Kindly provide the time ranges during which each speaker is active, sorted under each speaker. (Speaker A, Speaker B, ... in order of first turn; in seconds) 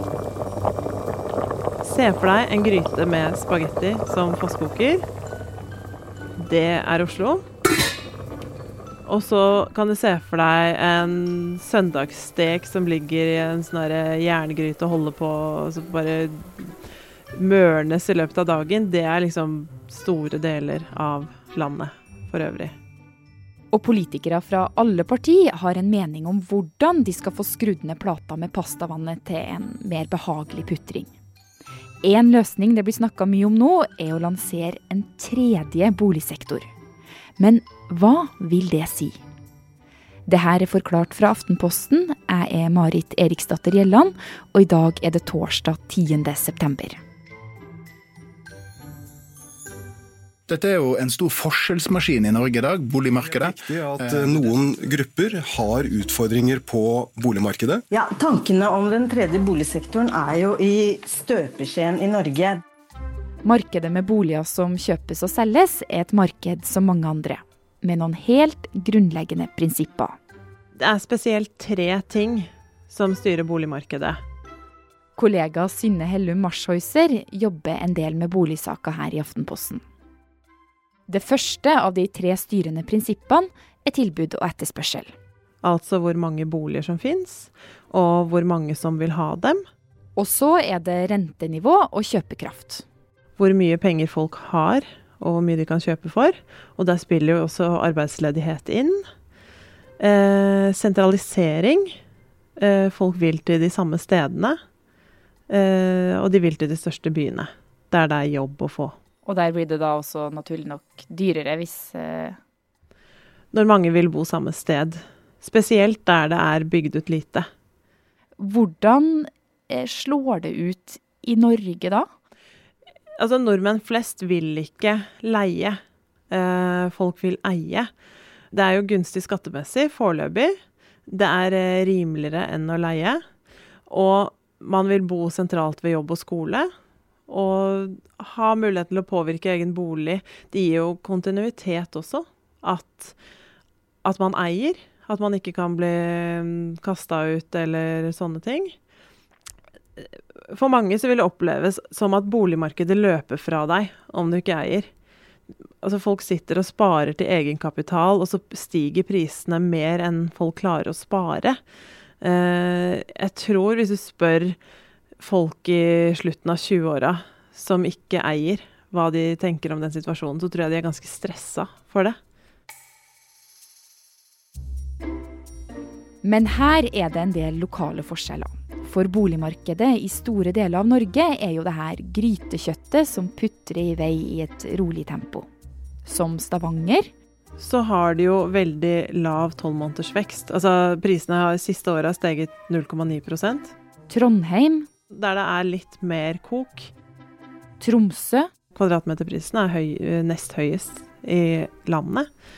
Speaker A: 1.8-5.0, 6.4-7.4, 9.1-16.8, 17.3-22.7, 70.8-74.2, 85.6-89.7, 93.4-99.1, 100.0-102.0, 102.6-104.6, 105.5-108.9, 113.5-117.5, 123.2-125.8, 126.3-127.9, 128.5-130.5, 131.1-133.2, 133.9-136.7, 137.3-143.2, 144.1-148.8, 150.0-154.9, 155.8-161.6, 162.2-164.6, 165.2-172.2, 187.6-193.7, 195.2-196.9, 198.8-202.3
Speaker B: 23.7-31.1, 32.0-36.7, 37.4-39.2, 40.3-47.0, 63.5-70.2, 75.2-79.8, 81.1-85.1, 90.2-92.9, 109.3-112.4, 118.4-122.1, 176.2-185.5, 186.1-187.1, 194.1-194.9, 197.8-198.5
Speaker C: 50.5-54.4
Speaker D: 53.2-57.8
Speaker E: 57.9-62.6